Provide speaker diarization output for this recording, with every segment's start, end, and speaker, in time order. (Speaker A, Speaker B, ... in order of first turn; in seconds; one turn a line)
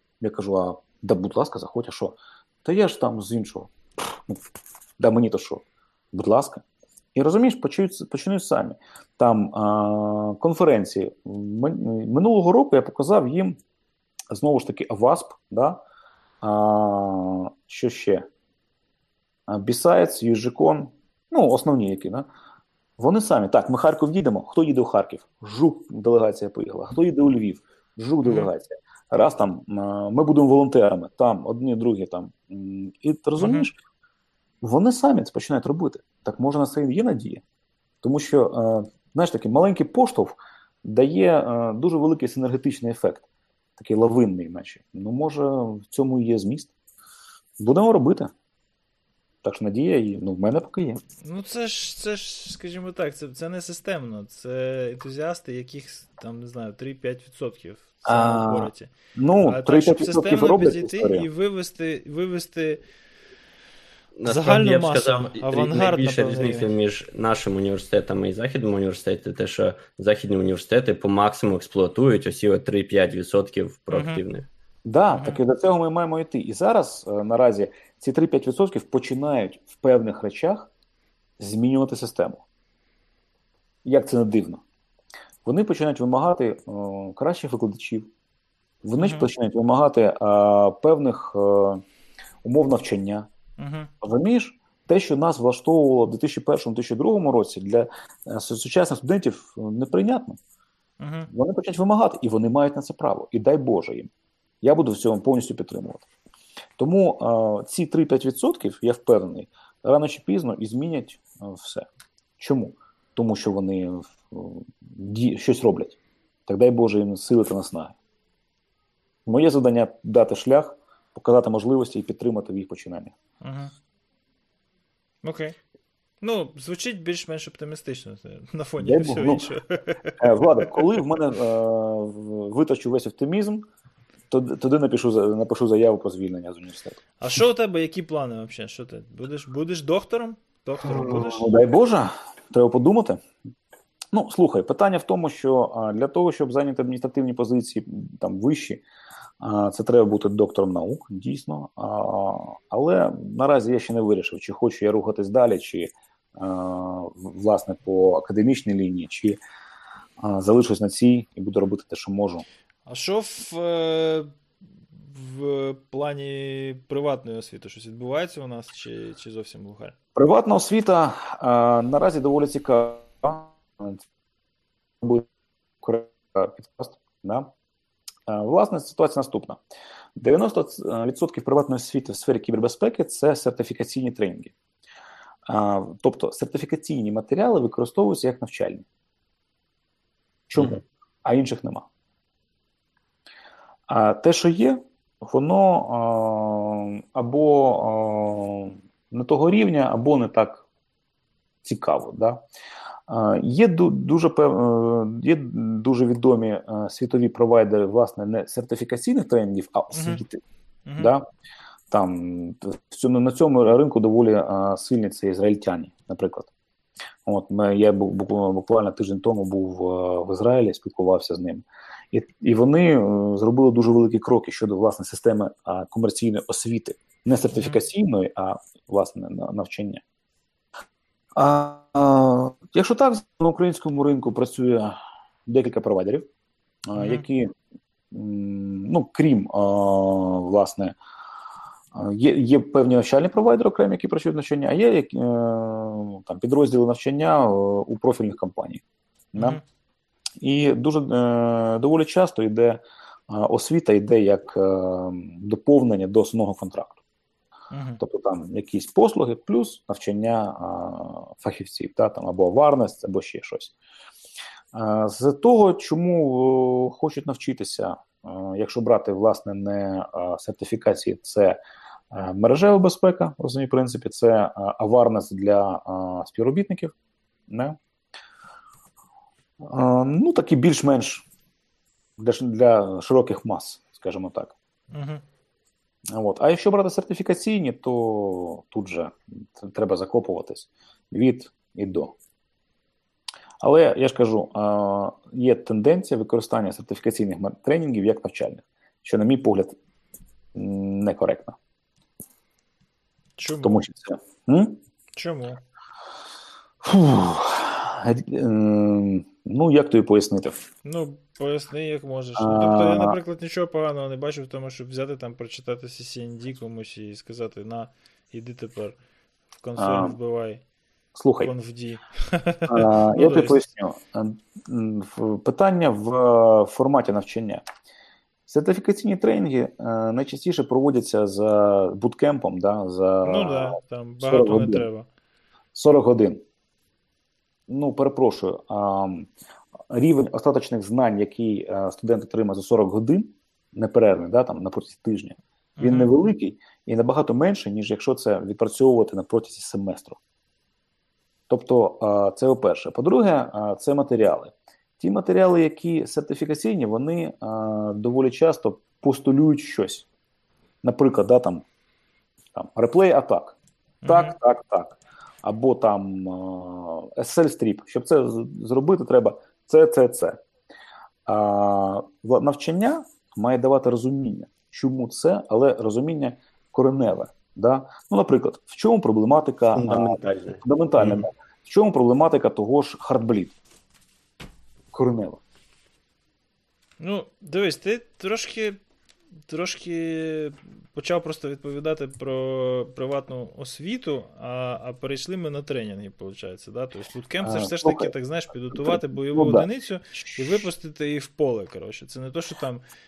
Speaker A: 0.2-4.5
Speaker A: 5.0-6.6
Speaker A: 7.1-13.6
Speaker A: 14.3-15.8
Speaker A: 16.4-18.3
Speaker A: 19.5-22.3
Speaker A: 23.0-33.8
Speaker B: 28.2-28.5
Speaker B: 33.4-33.7
Speaker A: 34.6-37.4
Speaker A: 38.0-43.2
Speaker A: 43.8-46.7
Speaker A: 47.6-48.3
Speaker A: 49.4-51.0
Speaker B: 51.2-58.9
Speaker A: 58.0-61.3
Speaker B: 59.4-62.8
Speaker C: 64.2-74.5
Speaker B: 64.2-66.7
Speaker B: 73.9-74.2
Speaker A: 74.8-80.7
Speaker B: 75.1-75.4
Speaker A: 81.4-82.4
Speaker A: 83.8-84.6
Speaker A: 85.4-88.1
Speaker A: 88.8-91.8
Speaker B: 89.0-89.3
Speaker A: 92.4-93.3
Speaker B: 93.6-93.9
Speaker A: 94.0-100.4
Speaker B: 101.0-101.3
Speaker A: 101.3-104.1
Speaker A: 104.6-106.0
Speaker A: 106.8-111.9
Speaker A: 112.4-117.9
Speaker A: 119.2-123.1
Speaker B: 123.4-123.7
Speaker B: 125.2-125.5
Speaker B: 126.2-130.2
Speaker A: 128.8-129.4
Speaker A: 130.2-133.6
Speaker A: 134.3-137.0
Speaker B: 137.2-141.5
Speaker A: 140.8-143.2
Speaker A: 144.1-148.8
Speaker A: 149.4-159.4
Speaker A: 160.2-162.4
Speaker B: 162.9-164.3
Speaker B: 164.9-169.9
Speaker A: 170.1-174.0
Speaker A: 175.0-175.3
Speaker A: 175.8-177.5
Speaker A: 178.3-179.6
Speaker A: 180.2-184.5
Speaker A: 185.5-188.8
Speaker A: 190.5-191.9
Speaker A: 193.9-200.6
Speaker A: 201.6-202.4
Speaker A: 203.1-210.4
Speaker B: 209.9-210.2
Speaker B: 210.8-211.1
Speaker A: 211.0-211.2
Speaker A: 211.9-216.5
Speaker A: 217.2-230.0
Speaker B: 227.5-227.8
Speaker A: 231.3-236.3
Speaker A: 236.8-237.5
Speaker B: 236.9-237.2
Speaker A: 238.1-240.9
Speaker A: 241.9-248.8
Speaker A: 249.3-249.6
Speaker B: 249.3-249.6
Speaker A: 250.4-257.0
Speaker B: 257.7-258.0
Speaker A: 258.0-263.7
Speaker A: 264.7-271.6
Speaker A: 272.1-276.9
Speaker A: 277.5-277.8
Speaker A: 279.6-281.2
Speaker A: 282.2-284.5
Speaker B: 284.9-285.2
Speaker A: 286.1-292.1
Speaker A: 293.6-299.8
Speaker A: 300.5-301.6
Speaker B: 303.4-303.8
Speaker A: 303.6-304.8
Speaker B: 305.1-305.6
Speaker A: 306.8-310.6
Speaker B: 310.8-318.9
Speaker A: 312.4-313.2
Speaker B: 319.6-320.6
Speaker A: 319.8-320.1
Speaker A: 321.1-321.5
Speaker B: 321.4-323.6
Speaker A: 322.7-327.6
Speaker A: 328.5-334.9
Speaker B: 333.2-335.1
Speaker A: 335.7-336.4
Speaker A: 337.7-339.3
Speaker A: 339.9-350.2
Speaker B: 345.8-346.1
Speaker A: 351.5-360.1
Speaker A: 360.8-361.6
Speaker A: 362.5-370.4
Speaker B: 364.0-364.3
Speaker A: 371.2-383.5
Speaker C: 379.7-381.3
Speaker A: 384.9-385.4
Speaker B: 387.0-388.8
Speaker B: 389.5-402.8
Speaker A: 397.4-398.1
Speaker A: 398.7-400.6